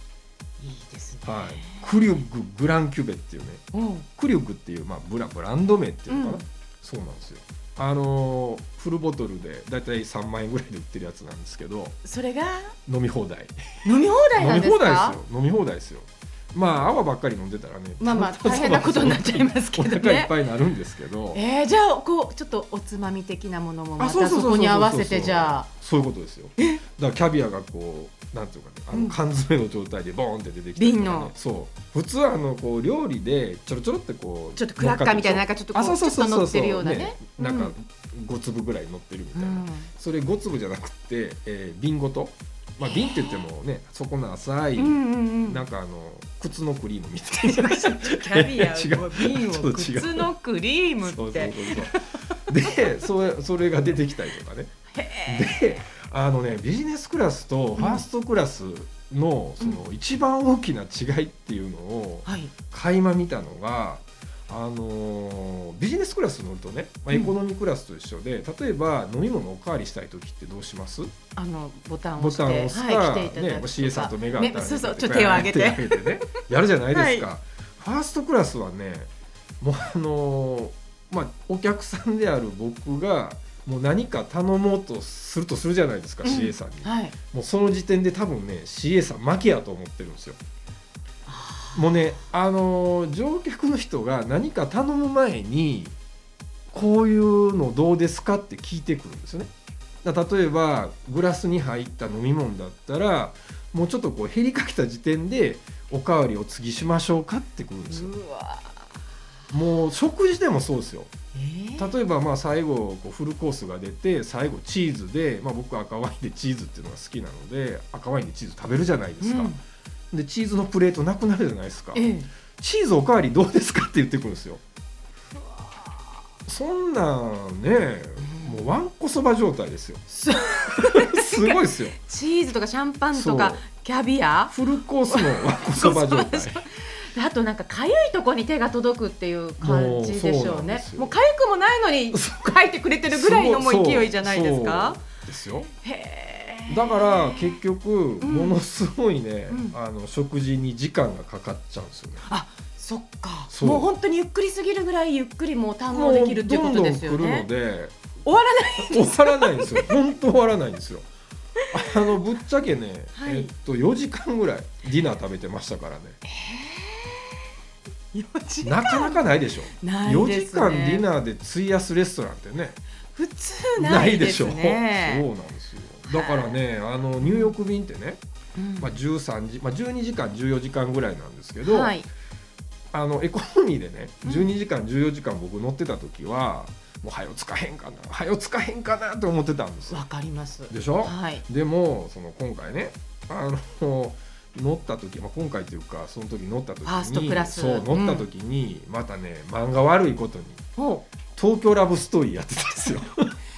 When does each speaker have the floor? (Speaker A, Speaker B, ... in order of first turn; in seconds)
Speaker A: 0.6-1.9, 3.7-4.1, 6.1-6.4, 12.1-12.8, 13.8-15.2, 18.0-20.3, 21.3-25.7, 28.9-29.2, 30.8-31.3, 34.6-37.7, 39.4-39.9, 42.8-43.5, 44.8-45.6, 47.4-52.4, 54.9-55.9, 57.8-58.0, 62.3-62.5, 71.3-77.3, 86.2-87.2, 91.3-92.0, 107.9-109.0, 111.3-112.0, 119.2-119.6, 121.9-122.3, 125.6-126.1, 128.2-128.7, 130.1-134.6, 135.1-145.0, 145.8-147.6, 148.2-148.6, 149.5-149.8, 152.2-157.5, 158.2-159.9, 163.2-163.5, 166.2-167.4, 168.1-169.2, 169.8-171.1, 173.1-175.3, 176.1-176.6, 177.2-177.5, 178.6-179.0, 181.6-182.1, 189.9-191.4, 196.8-198.3, 200.8-201.1
Speaker B: 1.2-3.6, 4.2-12.0, 12.9-13.6, 14.4-21.4, 24.0-50.3, 51.0-54.7, 55.3-71.1, 72.2-79.1, 79.6-90.4, 91.8-96.0, 96.7-99.5, 100.0-108.1, 109.5-111.1, 111.8-119.5, 120.1-122.1, 122.6-124.6, 126.5-130.1, 130.7-132.0, 133.1-133.6, 134.5-136.6, 139.6-141.2, 142.1-145.7, 146.7-152.2, 153.5-153.9, 155.9-158.0, 158.8-161.1, 161.7-166.2, 168.6-172.8, 173.8-178.2, 178.8-181.9, 182.9-190.0, 190.7-200.6, 201.4-203.4